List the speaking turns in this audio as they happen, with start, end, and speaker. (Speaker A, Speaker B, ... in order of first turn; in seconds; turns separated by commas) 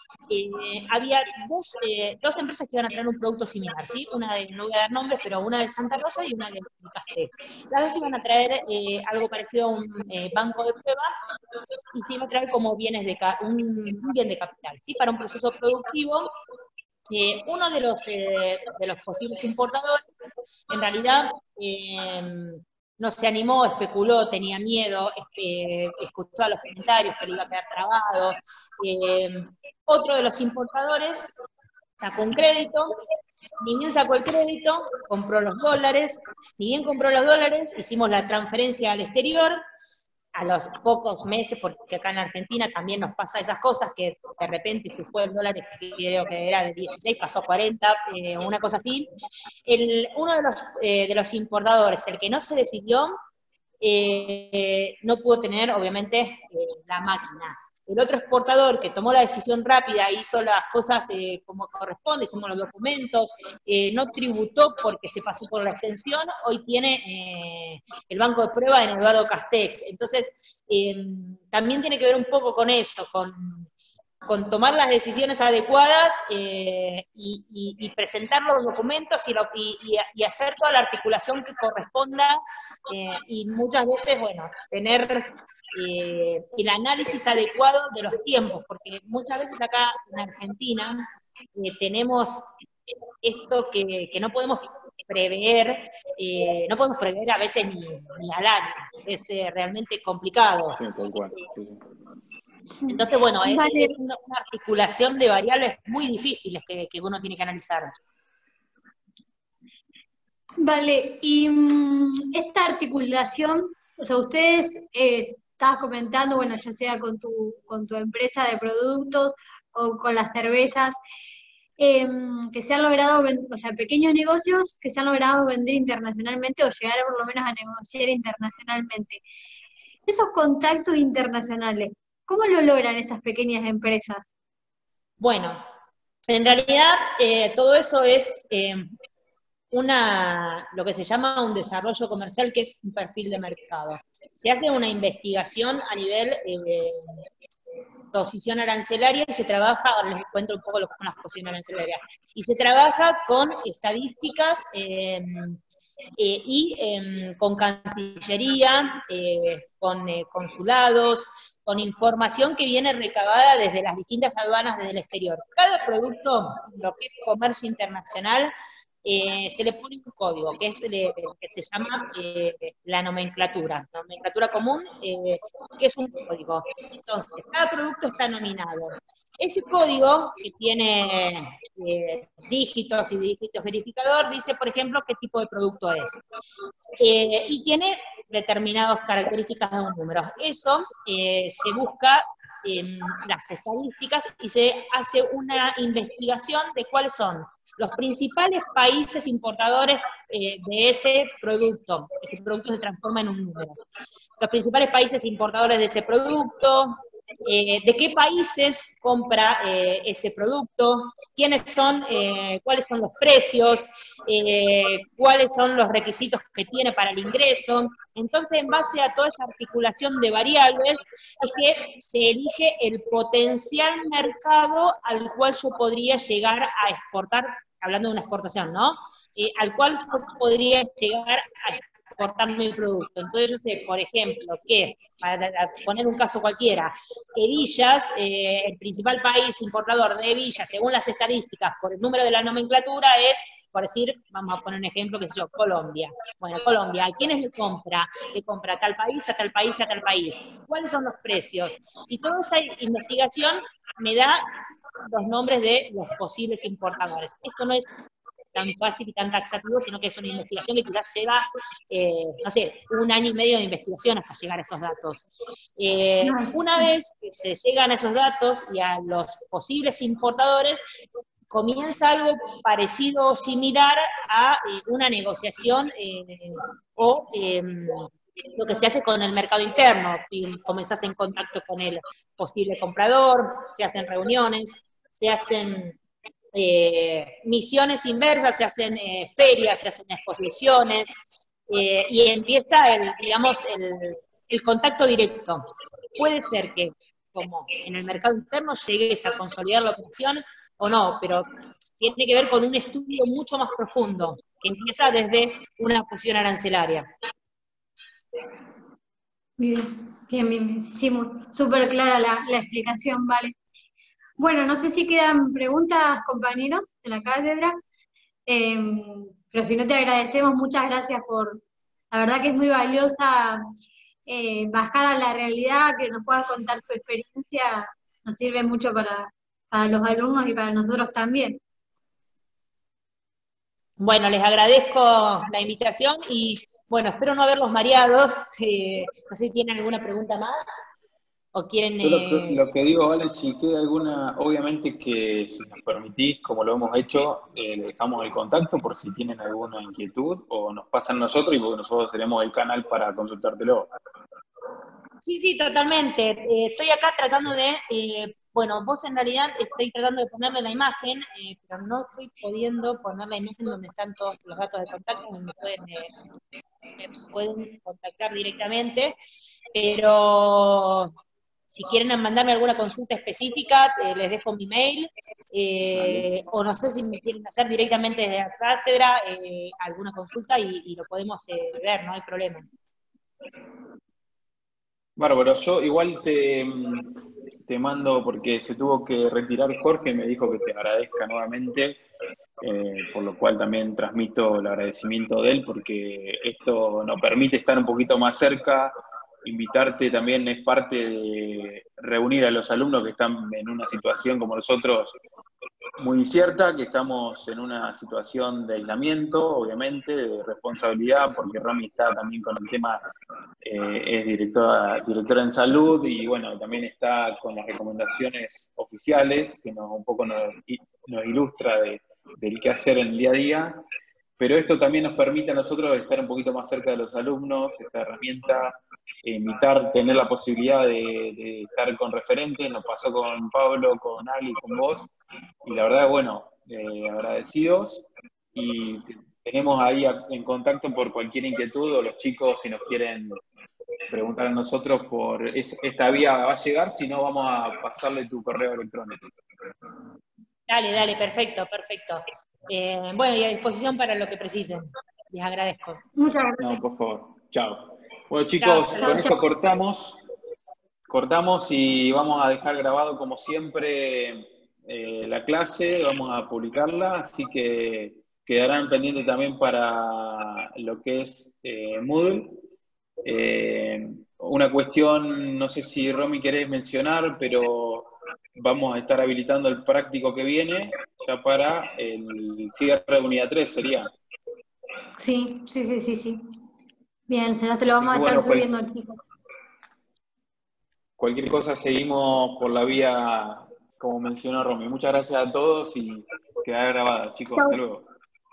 Speaker A: 0.3-11.1, Speaker A: 11.9-16.3, Speaker A: 17.1-20.0, Speaker A: 20.7-31.3, Speaker A: 32.0-33.0, Speaker A: 33.6-39.6, Speaker A: 40.3-49.1, Speaker A: 49.7-53.1, Speaker A: 53.8-73.7, Speaker A: 74.2-92.5, Speaker A: 93.2-100.8, Speaker B: 100.7-101.8, Speaker C: 102.8-103.9, Speaker A: 102.9-107.9, Speaker C: 110.6-121.0, Speaker C: 121.8-129.2, Speaker C: 130.1-134.3, Speaker A: 135.2-135.7, Speaker A: 136.3-138.9, Speaker A: 139.7-147.0, Speaker A: 148.1-155.6, Speaker A: 156.2-186.2, Speaker A: 187.0-203.8, Speaker A: 204.4-254.4, Speaker A: 255.1-257.9, Speaker A: 258.5-270.8, Speaker C: 266.2-266.9, Speaker A: 271.5-286.0, Speaker A: 286.5-301.5, Speaker A: 302.0-307.1, Speaker C: 309.6-313.6, Speaker C: 314.4-317.8, Speaker C: 318.5-323.6, Speaker C: 324.3-331.6, Speaker A: 334.0-340.7, Speaker A: 341.5-342.6, Speaker B: 342.0-353.9, Speaker A: 355.2-366.1, Speaker A: 367.0-369.2, Speaker A: 369.7-371.1, Speaker A: 371.7-382.7, Speaker B: 375.9-376.3, Speaker B: 385.2-392.0, Speaker B: 392.6-405.2, Speaker B: 406.0-413.0, Speaker B: 413.6-423.8, Speaker B: 424.4-435.1, Speaker B: 435.6-443.4, Speaker B: 444.1-449.2, Speaker A: 450.7-456.0, Speaker C: 456.2-456.8, Speaker B: 456.6-460.2, Speaker A: 458.6-459.3, Speaker C: 459.0-459.4, Speaker B: 461.1-472.5, Speaker B: 473.2-484.1, Speaker C: 485.2-486.4, Speaker C: 487.3-489.2, Speaker B: 488.0-488.7, Speaker B: 491.2-498.1